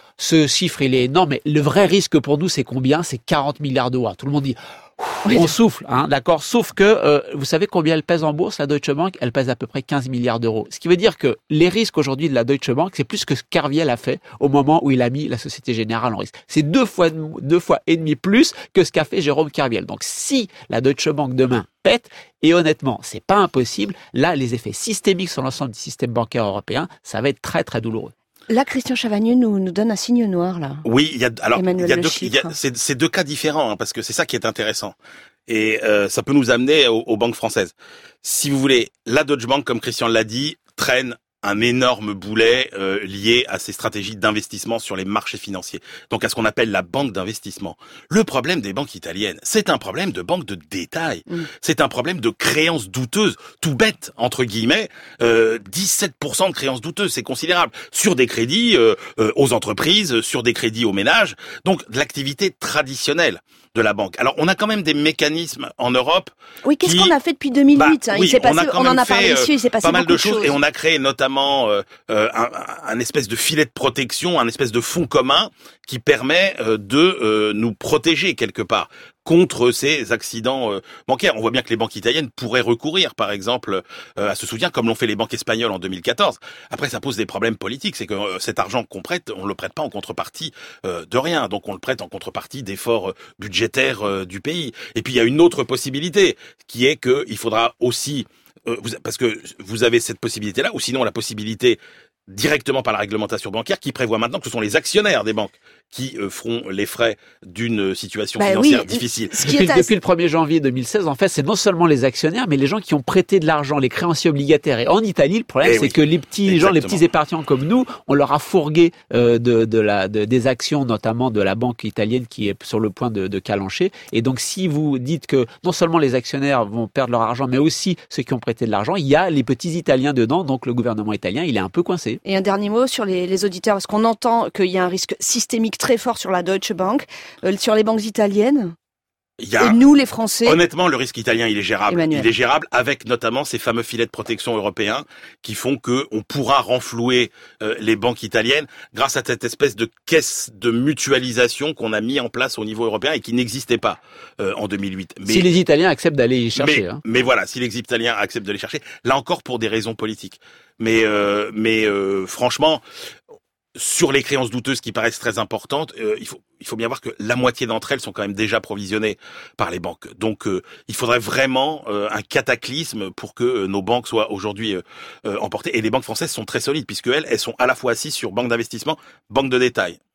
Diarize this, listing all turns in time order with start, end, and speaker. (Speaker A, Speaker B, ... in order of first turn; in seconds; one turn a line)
Speaker A: 0.2-28.1
Speaker B: 5.3-5.5
Speaker B: 28.5-30.8
Speaker C: 30.8-35.0
Speaker B: 31.5-32.5
Speaker C: 35.5-67.1
Speaker B: 66.6-70.6
Speaker C: 67.7-109.3
Speaker B: 108.4-109.9
Speaker A: 109.4-132.2
Speaker C: 115.6-117.0
Speaker B: 132.2-138.7
Speaker C: 139.4-139.8
Speaker B: 139.6-140.6
Speaker C: 140.4-155.5
Speaker B: 141.9-142.3
Speaker A: 155.2-157.0
Speaker C: 156.6-162.8
Speaker C: 163.8-180.0